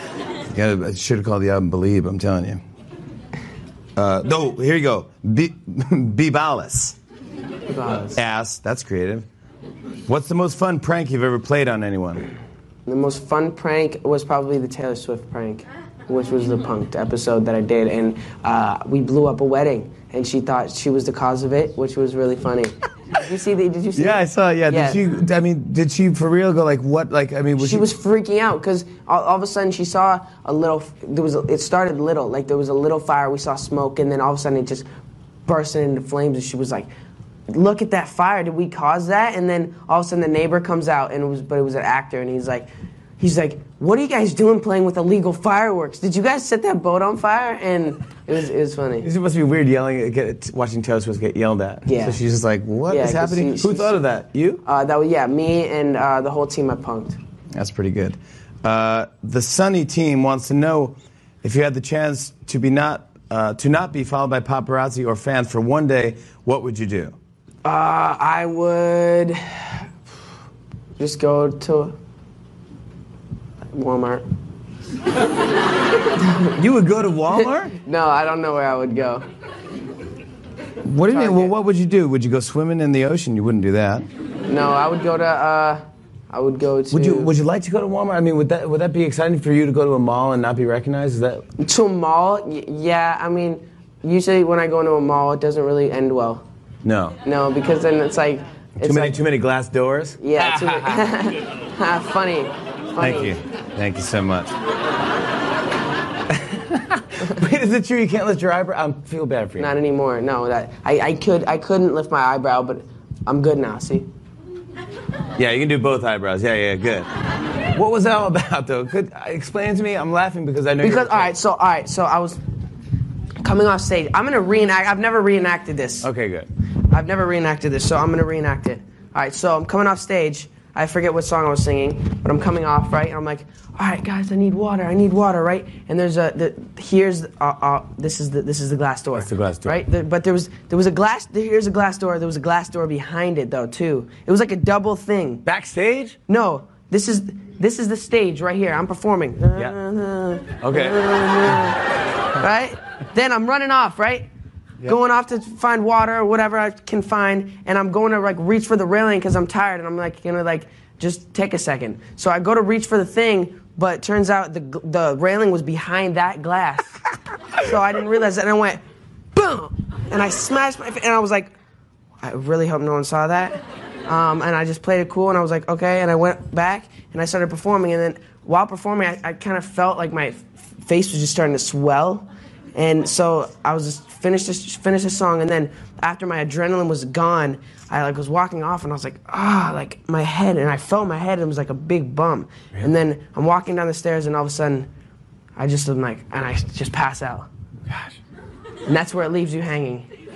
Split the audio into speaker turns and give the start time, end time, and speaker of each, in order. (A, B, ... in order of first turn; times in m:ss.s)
0:00.5-0:02.6 A
0:04.0-0:07.0 A
0:07.7-0:08.2 B
0:08.1-0:09.3 A
0:10.1-0:12.3 A
0:12.9-0:25.0 B
0:24.0-0:27.9 A
0:27.6-0:34.9 B
0:35.5-0:36.9 B
0:37.5-0:49.1 B
0:49.0-0:54.6 A
0:51.9-0:52.2 B
0:52.9-0:54.0 B
0:54.6-0:57.2 B
0:57.5-1:07.2 A
1:07.6-1:09.8 B
1:11.0-1:12.0 B
1:13.7-1:14.3 B
1:16.5-1:17.8 A
1:17.8-1:19.3 B
1:20.8-1:24.1 A
1:21.1-1:21.5 B
1:24.5-1:27.3 B
1:26.9-1:31.5 A
1:31.6-1:36.4 B
1:36.8-1:37.2 A
1:37.2-1:39.2 B
1:38.8-1:41.1 A
1:40.2-1:43.4 B
1:43.0-1:44.5 A
1:46.3-1:49.7 A
1:49.6-1:54.1 B
1:55.4-1:57.1 A
1:57.7-2:01.3 A
2:00.8-2:02.4 B
2:03.4-2:06.1 B
2:06.0-2:06.5 A
2:06.9-2:25.4 B
2:19.2-2:19.8 A
2:25.5-2:26.2 A
2:26.3-2:31.8 B
2:30.6-2:31.7 A
2:32.3-2:34.3 B
2:34.8-2:47.0 B
2:47.5-2:48.8 B
2:49.4-2:51.5 B
2:52.2-3:14.9 B
3:15.6-3:17.5 B
3:17.9-3:18.1 A
3:18.9-3:20.1 B